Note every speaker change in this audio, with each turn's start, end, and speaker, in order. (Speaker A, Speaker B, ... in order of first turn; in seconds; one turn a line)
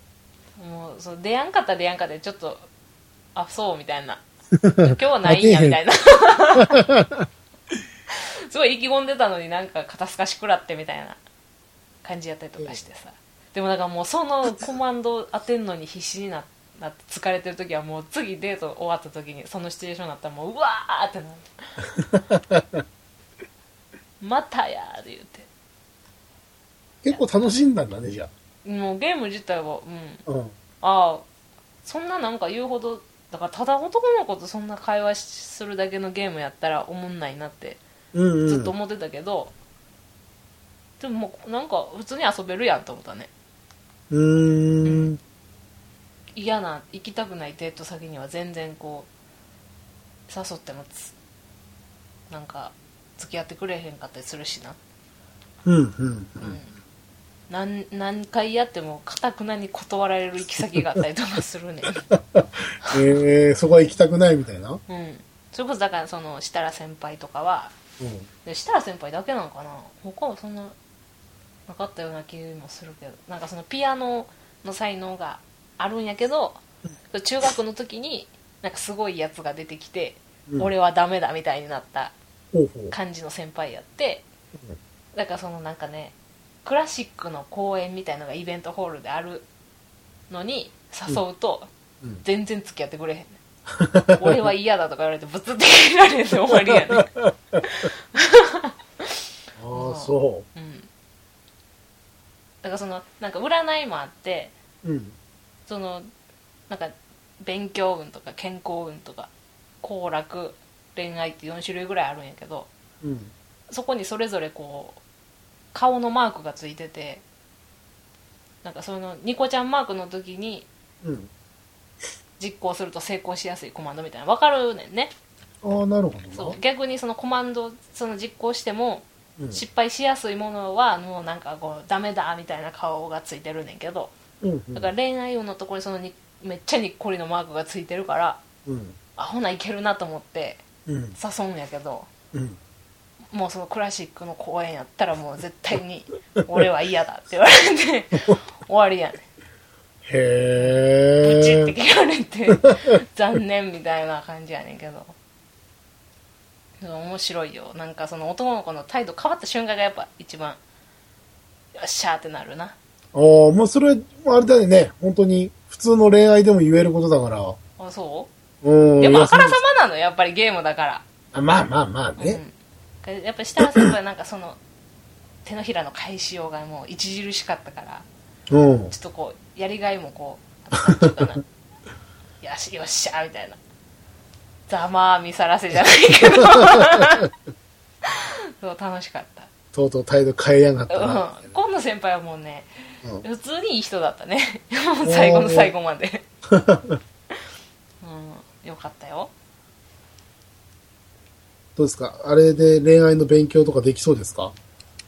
Speaker A: 0.6-2.7
Speaker A: 3.4-4.2
Speaker B: 4.6-5.8
Speaker A: 4.8-6.8
Speaker B: 6.6-7.3
Speaker A: 8.1-11.2
Speaker A: 12.0-21.5
Speaker B: 22.0-22.6
Speaker A: 24.2-25.5
Speaker B: 27.0-28.3
Speaker A: 28.6-30.2
Speaker B: 30.3-30.5
Speaker A: 30.8-31.3
Speaker A: 31.8-37.8
Speaker B: 38.1-38.7
Speaker A: 38.5-39.5
Speaker A: 41.0-43.3
Speaker B: 44.1-45.2
Speaker A: 44.8-45.1
Speaker A: 46.4-49.1
Speaker A: 50.3-51.1
Speaker A: 52.3-54.8
Speaker B: 55.6-56.6
Speaker A: 56.4-56.7
Speaker A: 57.5-62.0
Speaker B: 62.1-64.8
Speaker A: 64.9-67.7
Speaker B: 68.0-68.3
Speaker A: 68.5-70.8
Speaker A: 71.7-82.2
Speaker B: 82.5-82.9
Speaker A: 82.9-84.3
Speaker A: 85.2-89.5
Speaker A: 90.3-91.7
Speaker A: 92.2-93.4
Speaker B: 93.8-94.4
Speaker A: 94.2-97.1
Speaker B: 96.7-97.3
Speaker A: 97.6-99.1
Speaker B: 99.6-100.5
Speaker A: 99.7-100.9
Speaker A: 102.6-104.5
Speaker B: 104.8-105.2
Speaker A: 105.7-106.1
Speaker A: 106.7-109.3
Speaker A: 109.8-112.7
Speaker B: 113.0-113.3
Speaker A: 113.7-115.0
Speaker A: 115.7-117.2
Speaker A: 118.6-120.7
Speaker B: 121.0-121.3
Speaker A: 122.4-125.1
Speaker B: 125.6-126.6
Speaker A: 126.3-134.1
Speaker B: 134.4-134.9
Speaker A: 134.7-138.4
Speaker B: 138.7-139.0
Speaker A: 139.2-140.6
Speaker B: 140.9-141.2
Speaker A: 141.2-142.1
Speaker A: 143.3-149.2
Speaker B: 150.1-151.7
Speaker A: 150.6-155.2
Speaker A: 156.8-160.6
Speaker A: 161.8-162.8
Speaker B: 163.1-167.6
Speaker A: 167.8-168.3
Speaker B: 168.6-169.6
Speaker A: 169.0-171.1
Speaker B: 171.3-172.4
Speaker A: 172.2-174.6
Speaker A: 175.4-178.1
Speaker B: 178.5-178.9
Speaker A: 178.9-181.4
Speaker A: 182.4-183.6
Speaker A: 184.7-187.3
Speaker B: 186.3-187.0
Speaker A: 188.0-189.5
Speaker B: 189.7-191.6
Speaker A: 190.9-192.7
Speaker A: 193.2-196.3
Speaker B: 195.1-195.7
Speaker B: 196.5-197.0
Speaker A: 198.0-199.3
Speaker B: 201.8-204.6